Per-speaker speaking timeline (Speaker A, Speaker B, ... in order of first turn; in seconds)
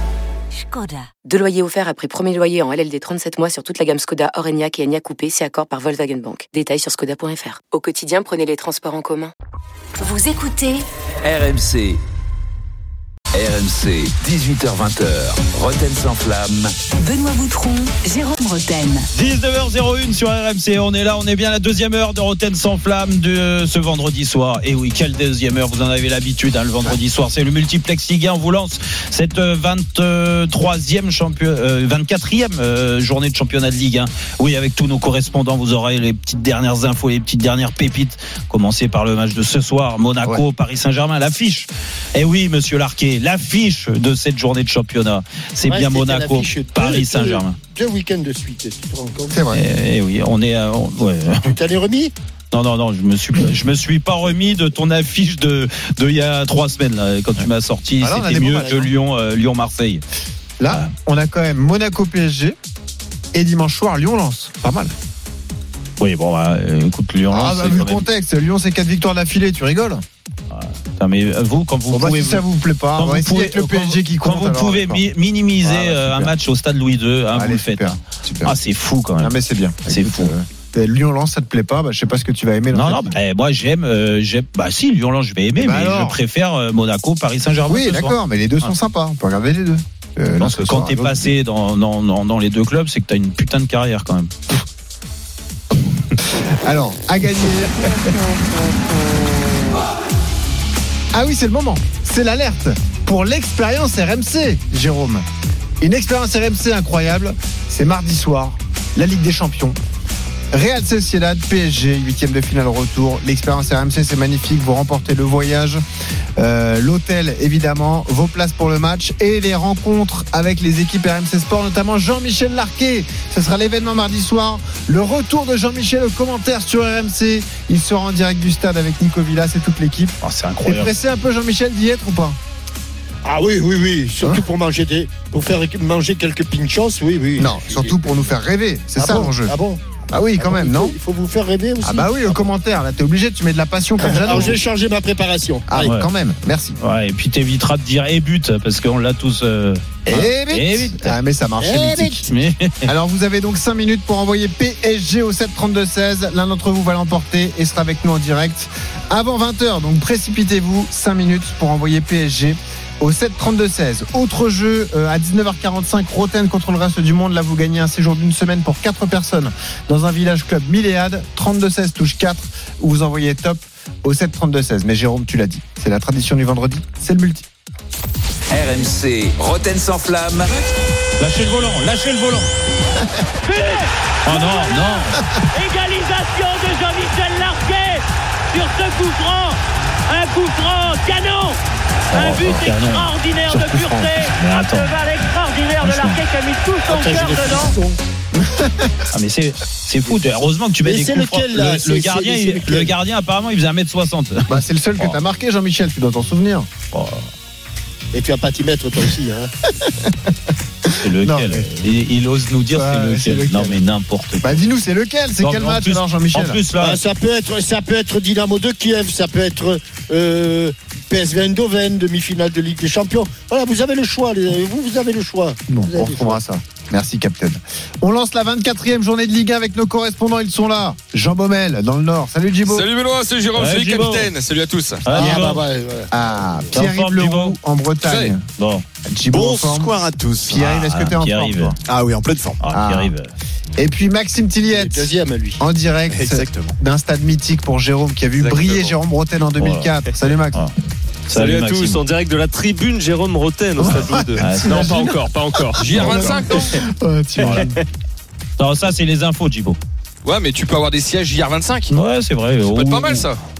Speaker A: 0.6-1.1, 10.0-10.8, 17.0-19.1
Speaker B: 1.2-9.3
Speaker C: 11.2-12.0, 13.3-16.7, 178.5-180.6
Speaker D: 19.1-47.5, 49.5-51.5, 52.5-60.0, 66.0-68.1, 70.5-72.4, 73.0-79.3, 79.9-80.3, 82.7-88.7, 90.4-94.3, 130.2-130.9, 145.8-146.1, 146.8-151.1, 152.2-152.9, 181.2-182.5, 184.2-185.2, 192.1-193.1, 194.3-194.9, 195.8-196.2, 199.1-205.2, 206.9-207.2, 211.0-214.6, 215.4-217.0, 233.5-234.3, 235.0-235.6, 236.7-237.6, 238.6-238.8, 240.5-241.8, 242.6-243.3, 249.6-249.9, 251.3-252.0, 254.4-255.1, 257.4-257.8, 258.6-259.8, 261.9-263.2
Speaker E: 45.6-49.4, 51.4-52.1, 58.4-58.8, 133.2-138.1, 139.0-139.8, 140.4-142.5, 144.0-145.9, 151.6-152.2, 196.9-198.0, 200.8-202.9, 208.1-209.5, 216.8-226.4, 235.1-236.1, 244.7-245.6
Speaker F: 49.3-49.6, 58.0-58.9, 60.6-62.6, 63.3-64.9, 67.3-70.0, 71.9-75.0, 75.6-76.3, 77.3-78.5, 79.2-83.2, 85.6-86.2, 87.7-91.3, 96.5-98.2, 101.1-105.2, 105.8-109.8, 110.5-115.8, 116.4-132.4, 137.4-139.5, 140.1-140.9, 141.8-144.6, 145.7-146.8, 150.1-152.2, 152.8-177.4, 193.5-194.1, 198.3-198.9, 204.5-206.7, 209.9-210.3, 210.9-211.7, 212.7-213.8, 214.4-216.6, 225.7-232.9, 236.1-238.4, 239.1-241.7, 242.7-243.1, 243.8-250.6, 253.8-255.1, 255.7-257.8
Speaker G: 183.4-191.6, 192.1-197.8
Speaker H: 232.6-235.2, 238.0-238.3, 255.8-256.8, 260.2-261.9, 262.7-263.4
Speaker I: 239.3-240.6, 241.8-242.6, 246.2-246.7
Speaker J: 248.4-248.9, 251.3-256.6